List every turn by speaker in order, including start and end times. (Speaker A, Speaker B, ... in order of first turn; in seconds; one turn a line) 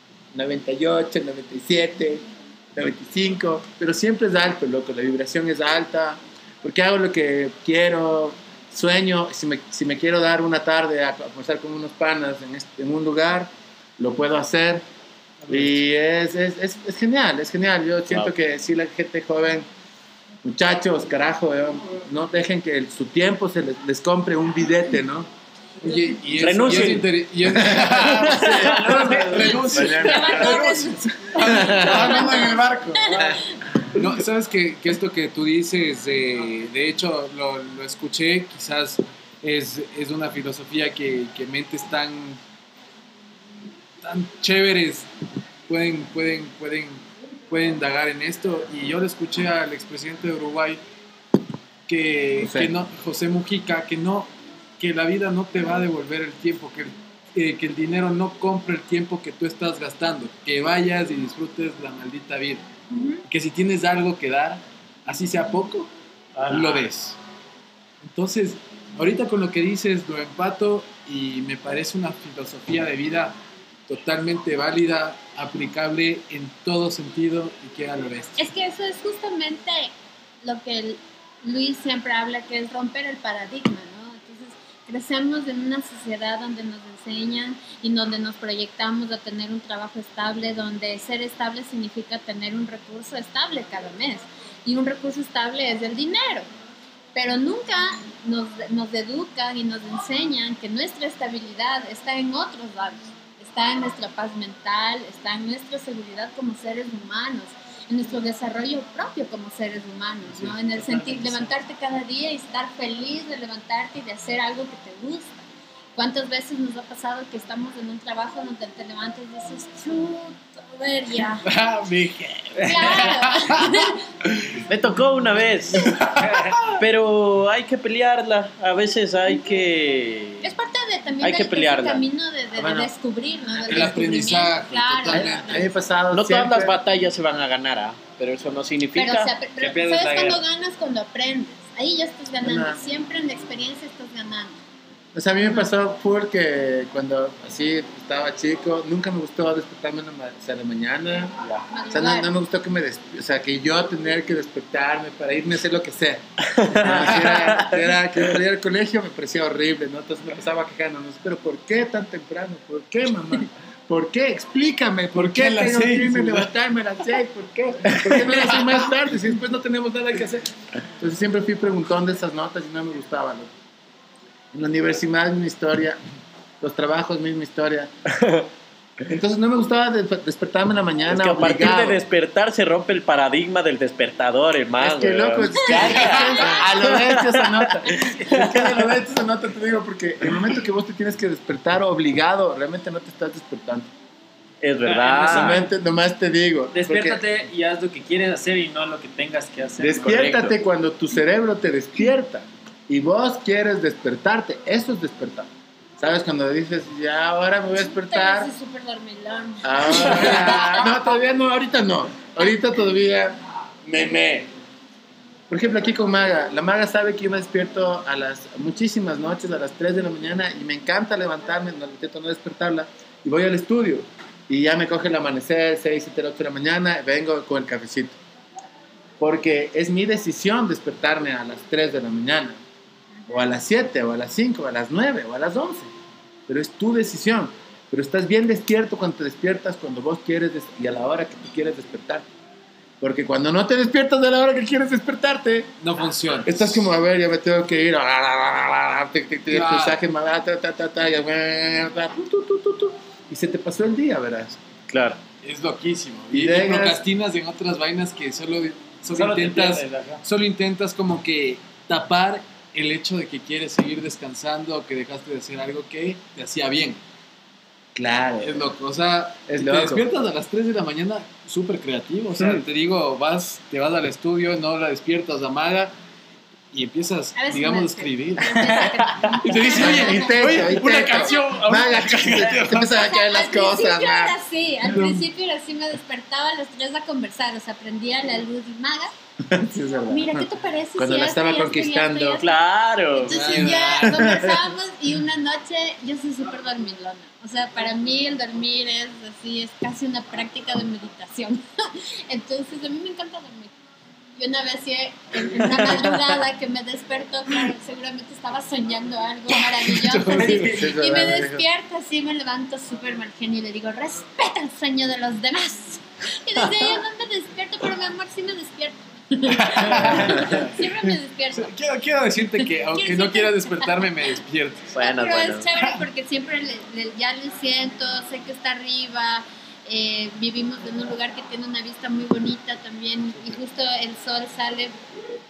Speaker A: 0.3-14.8
Speaker A: 15.5-19.7
Speaker A: 20.4-25.3
Speaker B: 25.8-33.4
Speaker C: 26.3-27.1
Speaker A: 27.4-30.7
Speaker C: 27.9-28.9
Speaker D: 29.4-31.0
Speaker A: 31.4-32.2
Speaker D: 31.8-33.5
Speaker B: 33.9-42.4
Speaker B: 44.0-45.1
Speaker B: 45.7-50.8
Speaker B: 51.9-62.6
Speaker A: 52.4-52.7
Speaker D: 62.9-63.2
Speaker B: 63.3-67.2
Speaker B: 68.0-73.4
Speaker B: 73.9-78.5
Speaker D: 78.4-96.5
Speaker D: 97.1-121.5
Speaker E: 110.3-111.5
Speaker B: 121.5-124.6
Speaker D: 122.6-124.0
Speaker C: 124.7-125.9
Speaker B: 125.7-126.8
Speaker C: 126.7-130.4
Speaker D: 130.4-135.6
Speaker C: 131.2-132.0
Speaker A: 132.6-132.9
Speaker B: 133.6-135.7
Speaker A: 135.1-136.7
Speaker C: 136.1-139.3
Speaker D: 138.9-144.6
Speaker E: 139.6-140.4
Speaker A: 142.4-142.8
Speaker A: 145.1-151.4
Speaker D: 151.7-152.3
Speaker A: 151.9-173.5
Speaker C: 156.4-157.9
Speaker B: 165.1-166.5
Speaker B: 167.9-168.8
Speaker A: 174.5-176.0
Speaker A: 176.6-177.9
Speaker C: 178.1-178.5
Speaker A: 179.1-182.0
Speaker C: 181.1-188.9
Speaker A: 184.8-193.9
Speaker D: 185.7-186.7
Speaker C: 194.6-195.7
Speaker E: 194.8-195.7
Speaker A: 195.2-197.2
Speaker E: 196.7-200.2
Speaker A: 199.8-208.5
Speaker C: 200.0-200.5
Speaker D: 207.9-211.0
Speaker A: 209.6-214.5
Speaker A: 215.5-228.2
Speaker A: 229.2-232.6
Speaker A: 233.3-235.9
Speaker A: 236.5-242.3
Speaker A: 243.0-245.7
Speaker B: 245.8-246.9
Speaker A: 246.4-254.6
Speaker B: 249.5-250.0
Speaker C: 254.9-255.2
Speaker B: 255.4-267.0
Speaker A: 256.3-257.0
Speaker E: 259.1-260.2
Speaker A: 267.9-268.7
Speaker B: 268.4-275.9
Speaker A: 269.5-270.1
Speaker B: 276.7-282.9
Speaker D: 277.4-281.5
Speaker A: 279.7-284.4
Speaker D: 282.6-289.1
Speaker B: 284.9-285.2
Speaker A: 289.5-292.4
Speaker D: 290.1-292.6
Speaker C: 292.4-293.7
Speaker D: 293.1-303.7
Speaker B: 293.3-294.4
Speaker A: 294.2-294.6
Speaker D: 304.4-321.7
Speaker B: 309.7-310.8
Speaker A: 310.4-311.6
Speaker B: 319.5-324.9
Speaker A: 320.0-320.5
Speaker D: 322.6-324.1
Speaker C: 324.9-325.7
Speaker D: 325.0-335.0